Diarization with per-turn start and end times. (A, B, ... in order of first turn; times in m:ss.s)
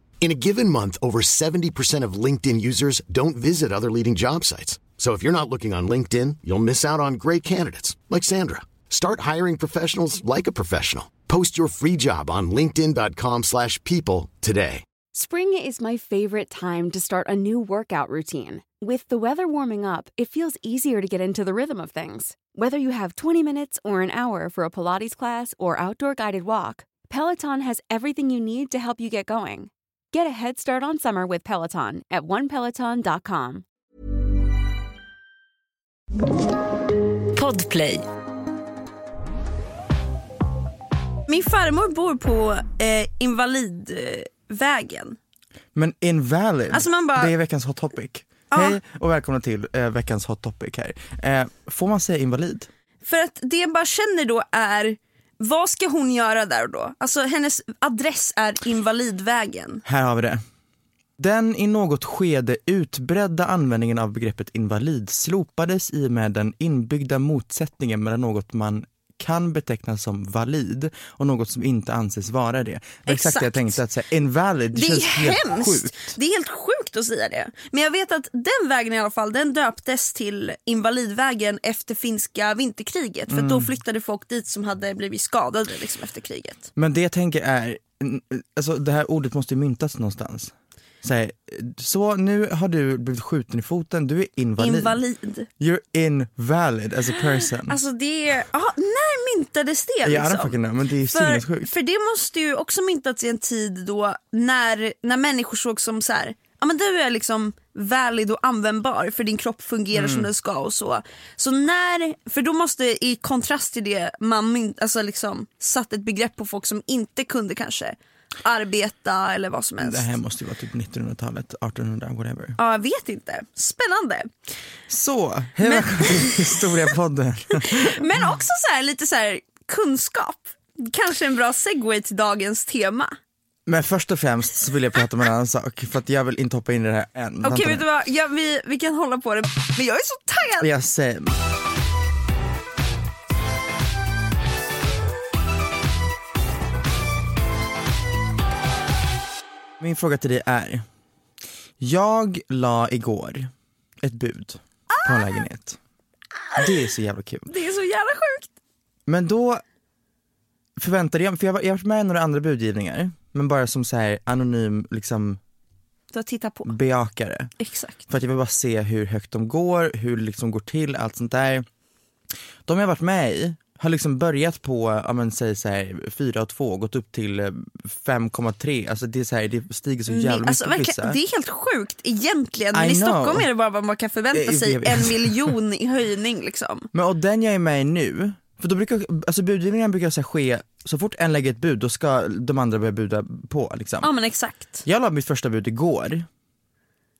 0:00.2-0:14.8 A
0:15.1-0:33.6 B
0:37.4-0:37.9 C
0:41.3-0:45.2 C
0:45.8-0:52.7 D
0:46.7-0:47.3 C
0:48.5-0:48.8 C
0:53.0-0:59.8 C
0:59.9-1:00.4 D
1:01.2-1:16.2 D
1:13.1-1:13.8 C
1:14.7-1:26.7 C
1:23.3-1:23.7 D
1:26.8-1:35.0 D
1:34.6-1:35.5 C
1:35.6-1:37.8 D
1:37.4-2:00.1 C
1:40.0-1:41.7 D
1:49.9-1:50.3 D
1:59.8-2:02.6 D
2:02.6-2:04.3 C
2:04.9-2:08.2 D
2:05.6-2:06.9 C
2:07.6-2:13.2 C
2:13.7-2:17.8 D
2:17.4-2:20.7 C
2:20.6-2:21.3 D
2:29.8-2:30.8 D
2:31.8-2:35.8 D
2:34.9-2:35.4 C
2:36.6-2:37.5 D
2:37.5-2:38.5 C
2:39.1-2:39.6 D
2:40.8-2:45.4 D
2:46.1-2:46.7 C
2:46.7-2:47.5 D
2:47.6-2:48.1 C
2:48.1-2:51.7 D
2:52.7-3:01.2 D
3:00.1-3:06.9 C
3:02.7-3:03.5 D
3:04.3-3:05.6 D
3:06.9-3:14.1 D
3:14.0-3:14.8 C
3:14.8-3:16.3 D